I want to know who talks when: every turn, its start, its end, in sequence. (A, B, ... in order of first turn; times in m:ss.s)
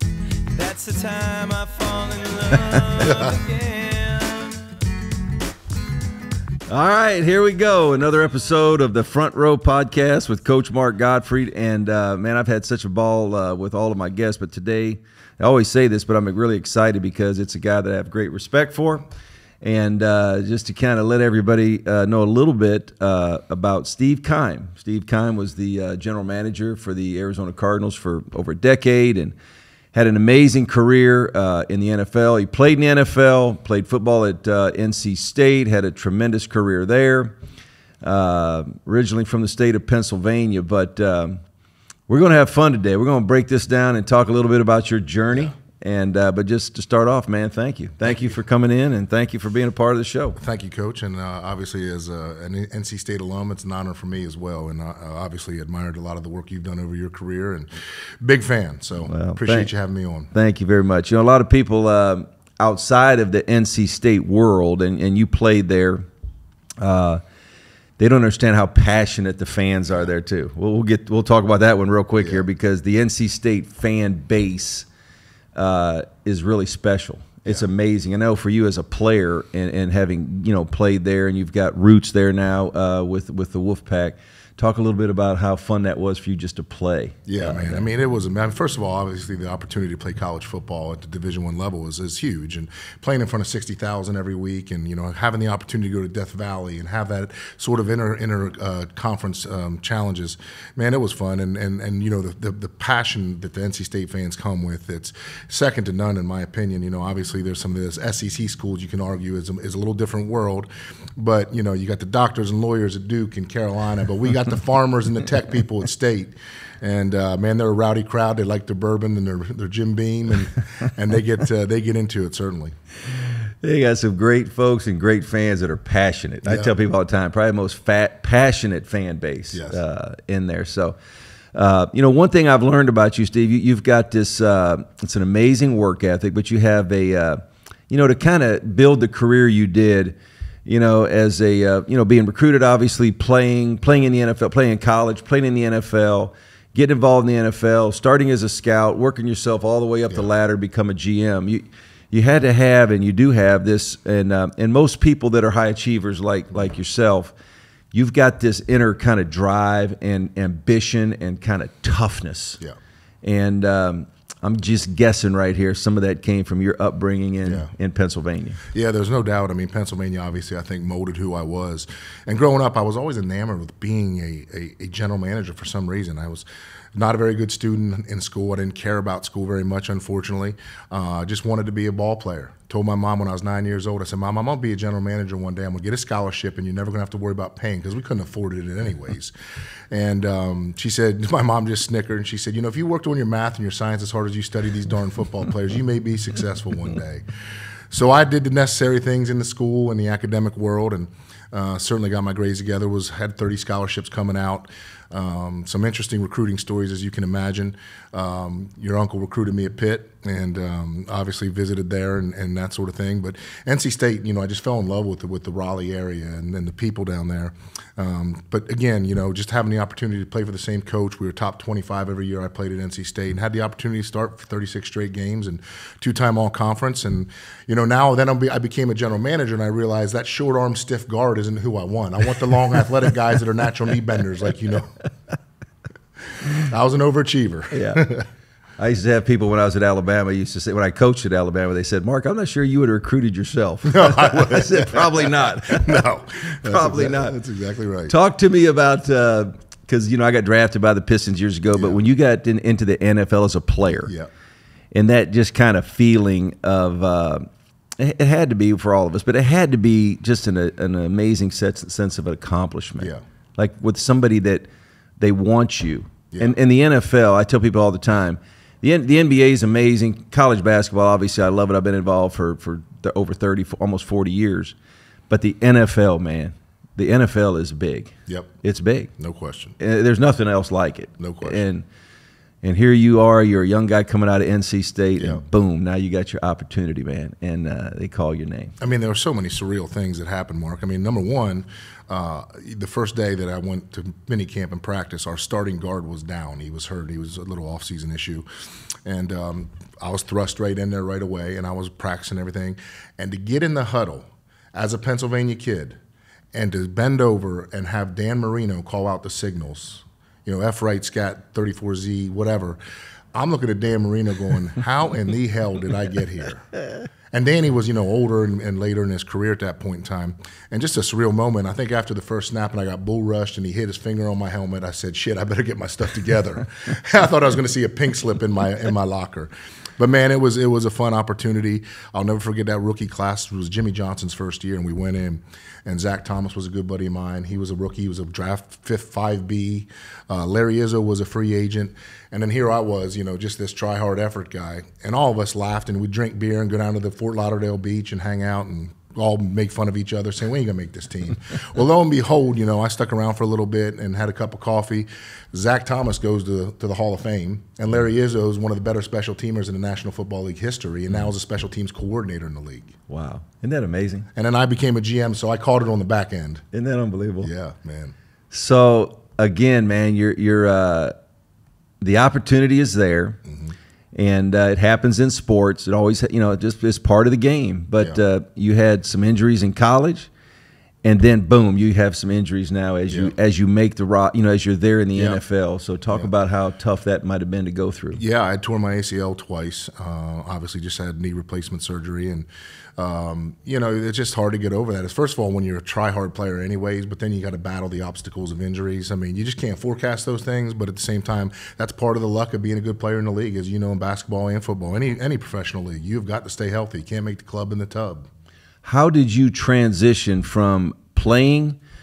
0:00.5-0:04.6 A
0:03.0-0:03.4 B
0:06.7-0:19.0 C
0:19.6-0:29.3 C
0:29.9-0:37.3 C
0:38.0-0:41.4 C
0:42.1-0:50.4 C
0:50.4-1:00.3 B
0:59.0-0:59.7 C
1:00.3-1:06.0 C
1:06.8-1:07.2 C
1:08.0-1:14.9 C
1:15.5-1:27.9 C
1:27.3-2:02.8 B
2:03.1-2:11.0 C
2:06.4-2:06.7 B
2:09.5-2:09.8 B
2:11.5-2:20.1 C
2:20.6-2:37.3 C
2:37.9-2:42.6 C
2:43.2-2:48.6 C
2:47.4-2:47.7 B
2:48.7-3:09.3 B
3:09.9-3:17.3 B
3:17.9-3:55.1 B
3:56.4-3:58.2 B
3:57.7-3:58.1 C
3:58.8-4:07.4 C
4:03.8-4:08.1 B
4:08.1-4:14.1 C
4:11.7-4:12.0 B
4:14.0-4:14.3 B
4:14.9-4:17.5 C
4:18.0-4:24.6 C
4:25.2-4:34.7 C
4:35.3-4:39.1 C
4:39.2-4:39.8 B
4:39.8-4:41.8 C
4:41.2-4:41.6 B
4:42.6-4:48.7 C
4:48.8-4:58.4 B
4:59.0-5:06.0 B
5:06.5-5:12.8 B
5:13.3-5:16.7 B
5:17.3-6:02.9 B
6:03.1-6:04.3 C
6:04.3-6:06.6 B
6:06.7-6:07.5 C
6:07.4-6:08.1 B
6:08.5-6:11.1 C
6:12.0-6:13.4 C
6:13.5-6:13.7 B
6:14.1-6:20.3 C
6:21.0-6:28.2 C
6:25.1-6:25.4 B
6:28.1-6:48.3 B
6:48.8-6:51.8 C